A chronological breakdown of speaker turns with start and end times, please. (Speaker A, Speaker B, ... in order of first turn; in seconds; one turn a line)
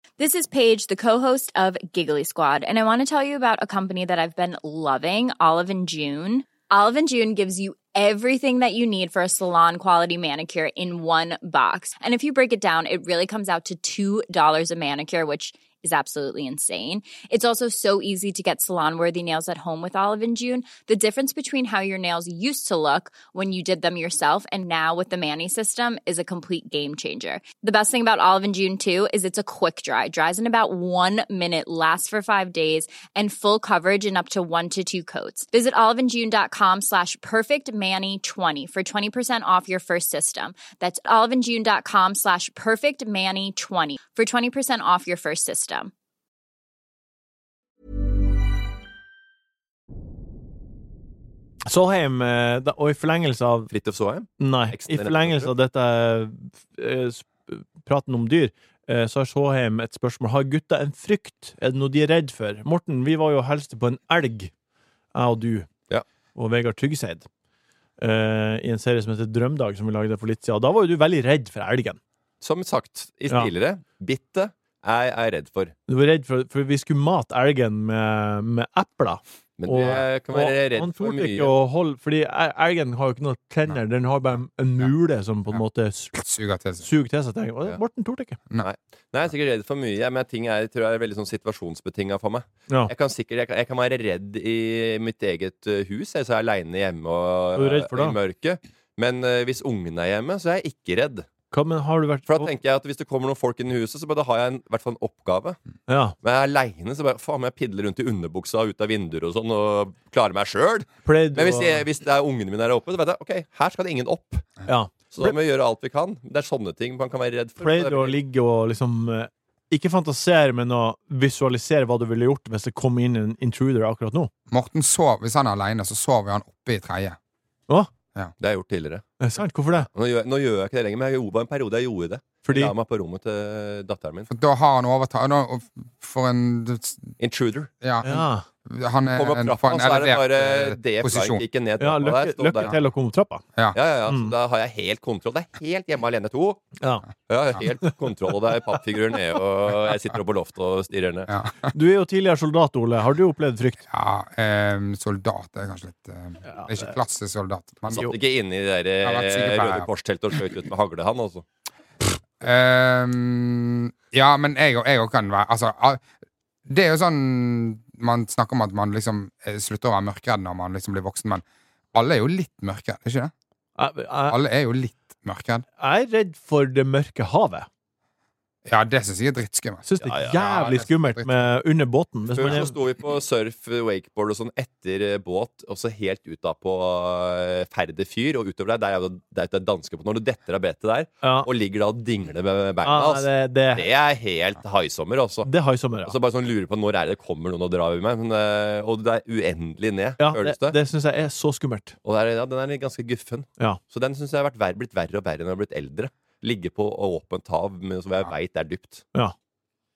Speaker A: 0.2-45.9
Speaker B: 51.7-53.7
Speaker C: 53.7-55.5
Speaker B: 54.4-64.5
Speaker B: 65.1-65.7
Speaker B: 66.3-67.3
Speaker B: 68.0-72.0
Speaker C: 72.4-75.7
Speaker B: 75.9-86.2
Speaker C: 79.6-81.5
Speaker D: 86.1-86.8
Speaker B: 86.8-88.4
Speaker C: 88.6-101.3
Speaker B: 97.5-98.2
Speaker B: 101.5-102.5
Speaker C: 102.3-105.6
Speaker B: 105.9-106.1
Speaker C: 106.2-114.5
Speaker B: 111.0-111.8
Speaker B: 114.7-115.3
Speaker C: 115.1-118.2
Speaker B: 117.6-124.3
Speaker D: 124.5-127.2
Speaker C: 128.4-129.0
Speaker B: 129.2-129.9
Speaker C: 129.9-134.3
Speaker B: 132.4-132.7
Speaker D: 134.3-137.1
Speaker C: 137.2-137.7
Speaker D: 137.8-141.4
Speaker B: 138.0-138.4
Speaker C: 139.1-142.7
Speaker B: 141.8-143.4
Speaker C: 143.7-146.7
Speaker B: 146.8-147.1
Speaker C: 147.3-151.3
Speaker D: 151.3-151.7
Speaker B: 151.7-153.8
Speaker D: 153.9-158.1
Speaker B: 156.5-156.9
Speaker B: 157.9-158.1
Speaker C: 157.9-161.4
Speaker D: 159.0-159.9
Speaker D: 162.0-166.0
Speaker D: 166.7-173.3
Speaker B: 173.8-174.4
Speaker D: 174.3-175.6
Speaker B: 175.8-177.7
Speaker D: 178.7-181.5
Speaker B: 179.8-182.7
Speaker C: 182.3-195.5
Speaker B: 191.2-191.5
Speaker B: 192.8-193.8
Speaker B: 195.4-196.1
Speaker C: 196.0-200.8
Speaker B: 200.2-201.9
Speaker C: 202.0-209.0